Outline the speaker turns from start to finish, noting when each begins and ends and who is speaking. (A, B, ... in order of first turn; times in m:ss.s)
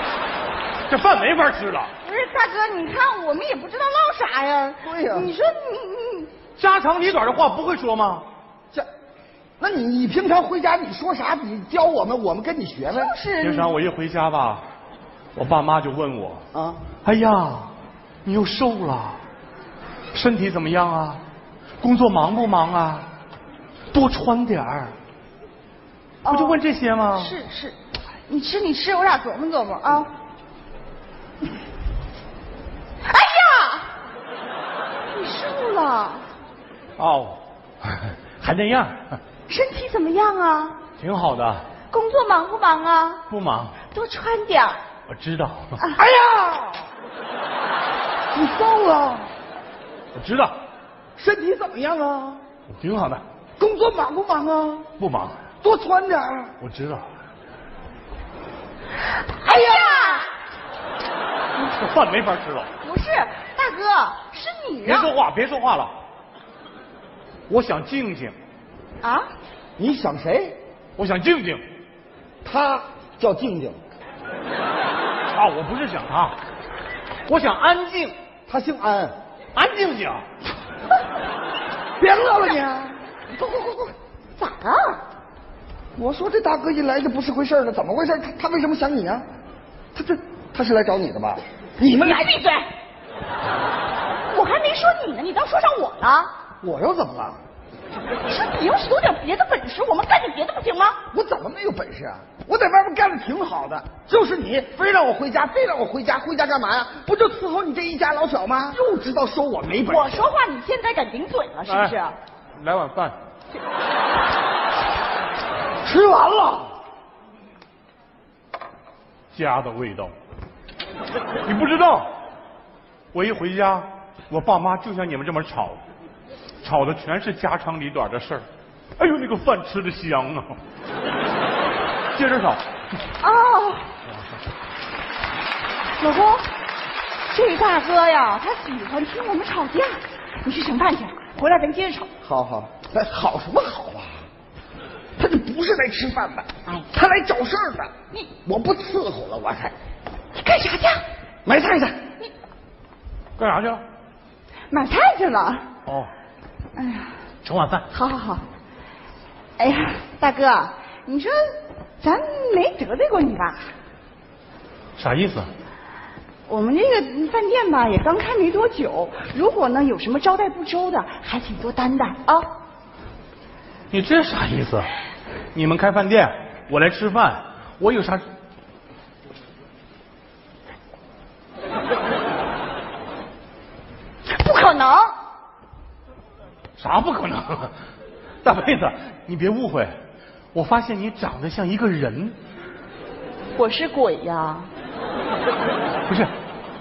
0:00.9-0:01.9 A
0:02.0-0:06.3 B
0:04.8-0:05.3 C
0:06.6-0:08.2 A
0:09.6-0:13.1 C
0:12.9-0:13.7 B
0:13.4-0:14.6 A
0:15.3-0:16.4 A
0:16.5-0:16.8 C
0:17.0-0:17.7 A
0:18.2-0:19.2 A
0:20.1-0:21.2 A
0:21.8-0:23.1 A
0:23.9-0:24.9 A
0:26.2-0:26.6 B
0:26.3-0:27.4 A
0:27.1-0:30.1 B
0:33.0-0:33.9 B
0:35.1-0:36.2 B
0:37.0-0:39.0 A
0:39.5-0:40.8 B
0:41.0-0:41.6 A
0:41.9-0:43.2 B
0:43.3-0:43.8 A
0:43.9-0:44.8 B
0:45.1-0:45.8 A
0:46.0-0:46.8 C
0:48.3-0:49.3 C
0:50.1-0:50.5 A
0:51.2-0:52.4 C
0:52.7-0:53.2 A
0:53.6-0:54.9 C
0:55.0-0:55.4 A
0:55.6-0:56.5 C
0:56.6-0:57.0 A
0:59.2-1:00.3 B
1:01.6-1:02.7 A
1:02.8-1:05.1 B
1:04.8-1:05.9 A
1:07.5-1:08.3 A
1:09.0-1:09.3 B
1:09.8-1:10.6 C
1:11.0-1:11.6 A
1:12.4-1:13.8 C
1:15.3-1:16.4 A
1:17.3-1:18.1 A
1:18.5-1:19.2 C
1:19.5-1:20.2 A
1:22.0-1:23.9 C
1:24.4-1:25.0 B
1:26.0-1:29.2 C
1:29.9-1:32.2 C
1:31.9-1:32.7 B
1:34.3-1:36.3 B
1:36.6-1:37.4 C
1:38.2-1:41.0 B
1:41.1-1:50.3 C
1:49.8-1:52.2 B
1:51.7-1:52.0 A
1:52.6-1:53.2 A
1:55.8-1:56.7 C
1:59.3-2:00.1 A
2:01.4-2:02.1 A
2:03.1-2:05.8 A
2:06.6-2:08.4 A
2:09.0-2:10.5 A
2:12.1-2:12.6 A
2:13.2-2:13.9 B
2:16.0-2:16.4 B
2:17.3-2:22.1 B
2:22.2-2:24.2 C
2:25.2-2:27.9 C
2:28.4-2:29.7 C
2:30.3-2:31.0 B
2:31.4-2:32.0 C
2:33.4-2:33.8 A
2:34.7-2:35.7 B
2:35.8-2:36.1 A
2:36.7-2:37.1 B
2:37.4-2:37.9 A
2:37.9-2:38.4 B
2:39.6-2:41.4 B
2:42.0-2:43.7 B
2:45.0-2:45.5 A
2:46.5-2:52.5 B
2:53.9-2:54.9 A
2:55.5-2:58.2 A
3:04.3-3:05.1 B
3:06.8-3:07.7 A
3:08.4-3:09.9 A
3:10.5-3:12.4 A
3:13.5-3:14.7 B